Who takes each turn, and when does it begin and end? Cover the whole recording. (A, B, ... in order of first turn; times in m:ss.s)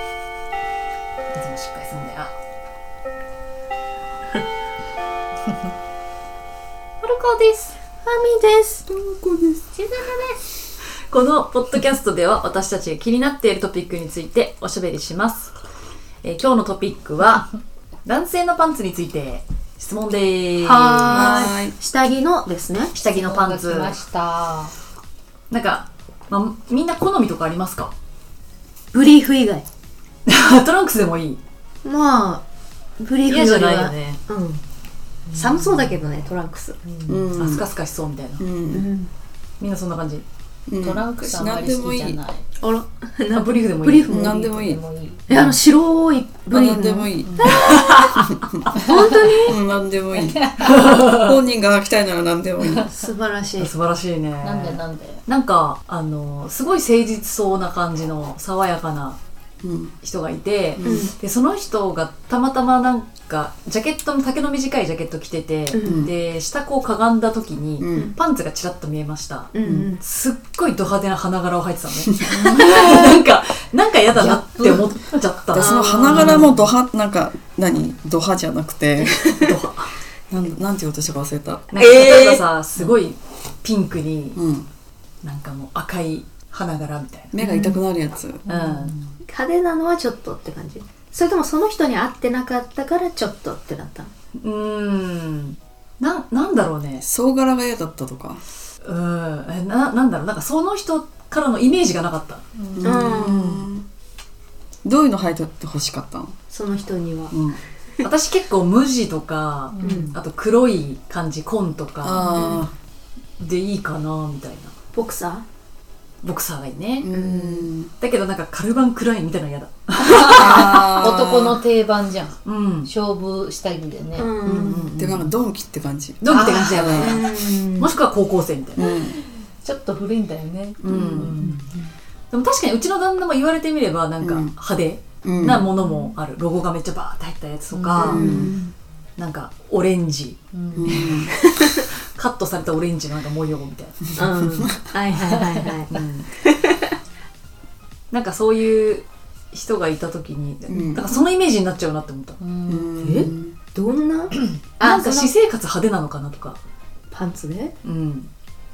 0:01.3-0:02.3 A
0:07.0-0:07.7 A
0:08.0-0:08.8 B
0:08.9-0:09.7 C
0:09.8-0:10.3 D
0:11.1-0:15.5 A
0:16.2-0:17.5 A
0:18.0-0:21.4 A
0:20.6-0:23.0 B
0:21.1-0:21.7 C
0:22.9-0:24.0 A
0:23.1-0:24.7 D
0:25.5-0:27.9 A
0:28.9-0:29.6 B
0:30.2-0:31.4 A
0:31.8-0:32.4 B
0:33.0-0:34.6 B
0:33.3-0:34.2 A
0:35.3-0:36.8 B
0:36.8-0:37.3 D
0:37.1-0:37.6 C
0:37.4-0:38.4 A
0:38.4-0:38.9 C
0:38.7-0:39.1 B
0:39.6-0:40.2 A
0:40.7-0:42.2 C
0:40.8-0:42.4 D
0:42.6-0:44.3 B
0:43.3-0:44.3 A
0:44.1-0:44.8 C
0:44.1-0:45.4 D
0:45.3-0:47.8 B
0:46.5-0:47.5 C
0:47.2-0:47.5 D
0:47.4-0:48.2 A
0:48.1-0:52.9 C
0:48.7-0:49.1 D
0:48.8-0:49.6 B
0:50.2-0:50.8 D
0:50.6-0:51.3 A
0:52.6-0:53.1 D
0:52.9-0:53.7 B
0:53.6-0:59.2 A
0:54.4-0:55.2 D
0:59.6-0:59.9 C
1:00.0-1:16.7 A
1:00.8-1:01.1 C
1:00.8-1:01.1 B
1:05.7-1:06.1 B
1:05.8-1:06.1 C
1:07.8-1:08.1 C
1:09.5-1:10.0 B
1:09.6-1:09.9 C
1:12.2-1:12.6 C
1:15.5-1:19.5 C
1:15.6-1:16.5 B
1:19.3-1:19.9 A
1:20.3-1:22.2 C
1:21.7-1:24.4 A
1:24.4-1:24.7 C
1:25.2-1:27.4 A
1:27.3-1:28.4 C
1:27.4-1:27.8 B
1:28.4-1:28.9 D
1:28.4-1:29.1 A
1:29.2-1:34.1 B
1:34.4-1:37.0 A
1:37.0-1:38.4 C
1:38.8-1:42.4 A
1:42.5-1:43.0 D
1:42.8-1:43.8 C
1:42.8-1:43.7 B
1:44.8-1:46.3 C
1:46.5-1:47.3 B
1:47.3-1:47.6 C
1:48.0-1:52.6 A
1:49.7-1:50.1 D
1:49.8-1:50.1 B
1:52.0-1:52.7 C
1:52.4-1:52.6 B
1:53.4-1:54.7 A
1:54.9-1:55.4 B
1:56.2-1:57.1 A
1:57.0-1:57.9 C
1:57.1-1:57.7 B
1:58.0-2:00.8 A
2:00.1-2:04.4 D
2:00.3-2:01.6 C
2:02.4-2:02.9 A
2:04.2-2:04.9 B
2:04.4-2:05.3 A
2:05.0-2:07.3 C
2:06.2-2:08.8 A
2:06.3-2:07.1 D
2:06.9-2:07.9 B
2:08.8-2:09.1 C
2:09.1-2:11.6 D
2:10.8-2:11.5 A
2:10.9-2:11.8 B
2:12.3-2:18.3 A
2:14.2-2:14.5 C
2:15.2-2:15.7 C
2:17.7-2:18.7 B
2:18.0-2:18.5 C
2:19.2-2:24.2 A
2:20.5-2:21.0 D
2:20.8-2:21.3 C
2:21.0-2:21.8 B
2:24.2-2:26.8 B
2:25.1-2:25.7 D
2:25.9-2:26.3 A
2:28.1-2:32.4 A
2:30.7-2:31.0 C
2:32.4-2:33.2 D
2:32.7-2:33.6 C
2:33.0-2:35.3 B
2:34.3-2:34.6 D
2:34.8-2:36.6 A
2:37.1-2:37.7 B
2:37.8-2:38.3 A